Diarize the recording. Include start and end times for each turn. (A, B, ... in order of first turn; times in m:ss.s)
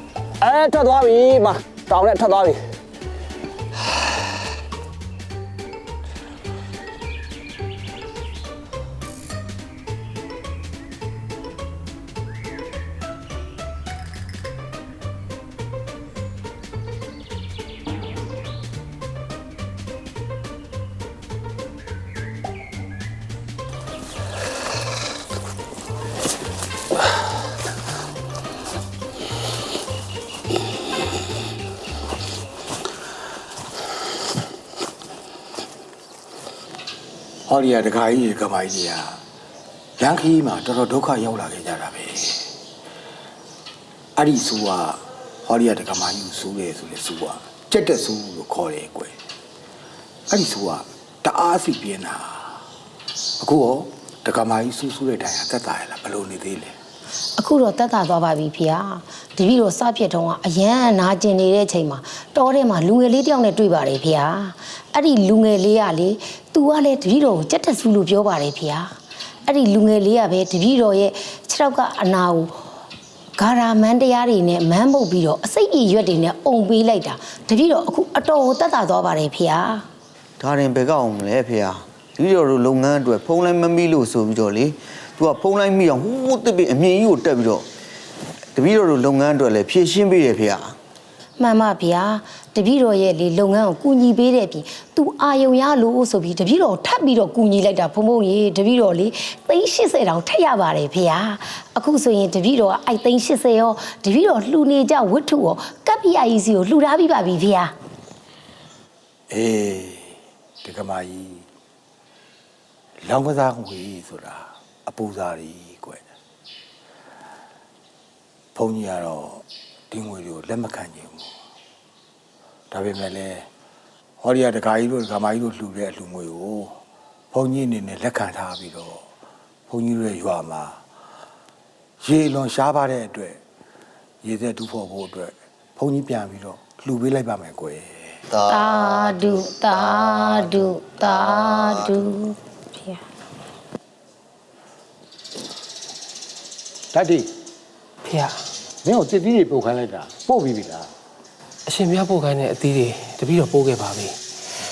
0:00.4-0:02.6 A
0:37.5-0:39.2 B
0:40.0-0:42.5 B
0:44.2-0:49.1 B
0:50.3-0:52.6 B
0:53.4-0:56.7 B
0:57.4-1:08.9 C
1:09.5-1:12.5 C
1:13.4-1:19.8 C
1:20.4-1:27.6 D
1:28.5-1:30.8 D
1:31.4-1:47.7 C
1:49.3-1:51.5 B
1:53.0-1:56.0 B
1:58.5-2:01.3 B
2:02.7-2:03.5 B
2:04.2-2:06.8 B
2:07.3-2:09.0 B
2:09.7-2:10.8 B
2:12.0-2:13.4 B
2:14.2-2:18.2 B
2:18.3-2:22.0 D
2:18.5-2:23.0 C
2:26.9-2:27.3 B
2:28.0-2:28.4 E
2:28.8-2:30.9 B
2:31.7-2:34.1 E